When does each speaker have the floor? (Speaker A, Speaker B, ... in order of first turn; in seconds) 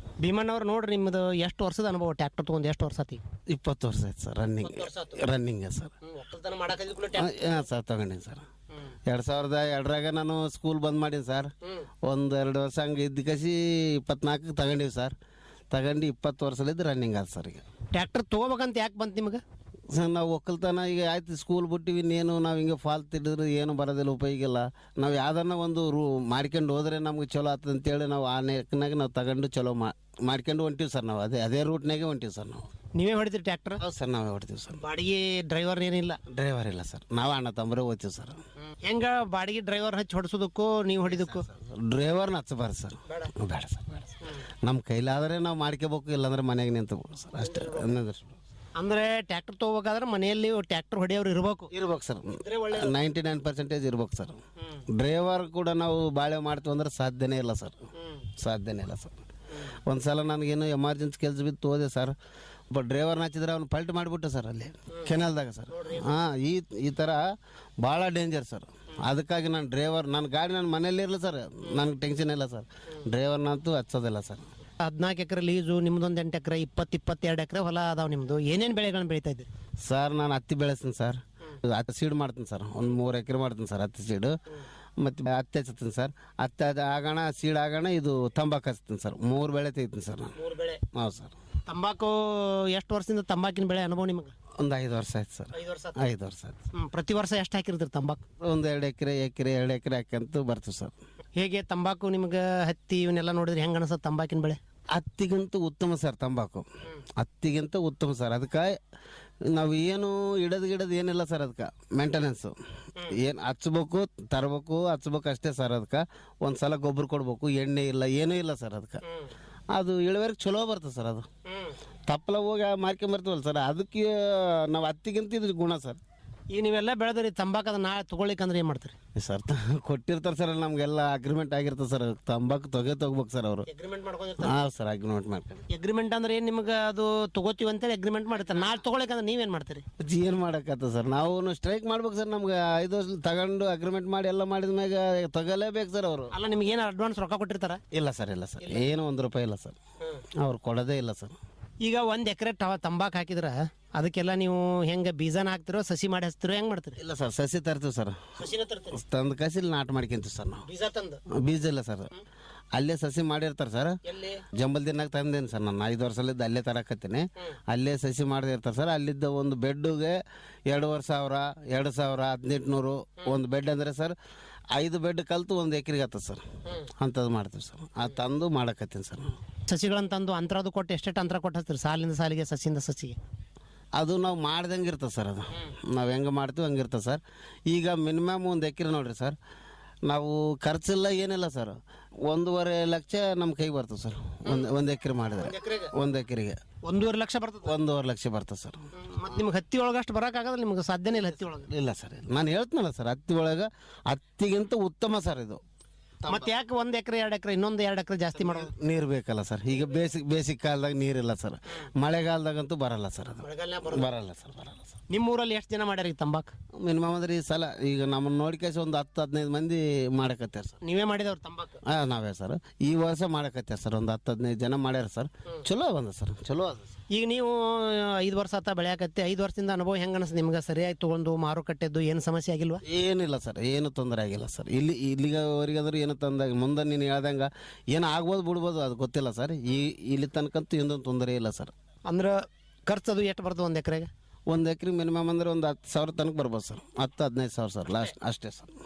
Speaker A: 0.2-3.2, 4.6-5.2, 6.0-7.6, 17.9-19.4, 33.0-33.8, 34.8-36.2, 38.8-41.5, 43.1-43.3, 47.4-48.0, 48.8-51.7, 52.3-53.0, 65.7-66.1, 74.8-79.5, 90.3-90.8, 91.7-94.3, 95.5-96.0, 96.7-98.2, 101.3-104.6, 119.0-119.3, 121.5-121.8, 126.5-128.9, 133.7-134.6, 135.7-139.8, 146.3-147.8, 151.8-157.0, 158.4-159.0, 160.7-161.2, 164.0-164.4, 179.7-183.2, 195.4-195.9, 196.8-197.8, 199.0-201.7, 206.3-208.7, 213.4-214.1, 215.1-216.5, 220.8-221.8, 227.1-232.8, 242.1-244.1
Speaker B: 3.5-5.9, 7.1-8.4, 9.1-11.5, 12.0-15.1, 15.7-17.6, 19.9-32.6, 33.8-34.8, 36.3-38.4, 41.1-48.4, 51.7-54.4, 54.9-57.8, 58.4-59.1, 59.9-62.1, 62.7-67.2, 67.8-74.5, 79.8-84.3, 85.0-90.3, 90.9-91.3, 94.6-96.6, 98.4-100.9, 104.9-108.8, 109.5-112.5, 113.0-119.0, 119.7-121.3, 122.1-126.0, 129.1-133.7, 134.4-135.6, 140.0-146.3, 147.9-149.8, 150.4-151.3, 157.0-158.2, 158.9-160.7, 161.3-162.1, 162.7-164.0, 164.5-174.2, 174.7-176.4, 177.0-179.3, 183.9-189.4, 190.1-196.6, 197.6-198.8, 201.6-205.6, 206.2-206.5, 208.4-214.9, 216.8-220.8, 221.8-226.9, 232.8-241.7, 244.5-248.7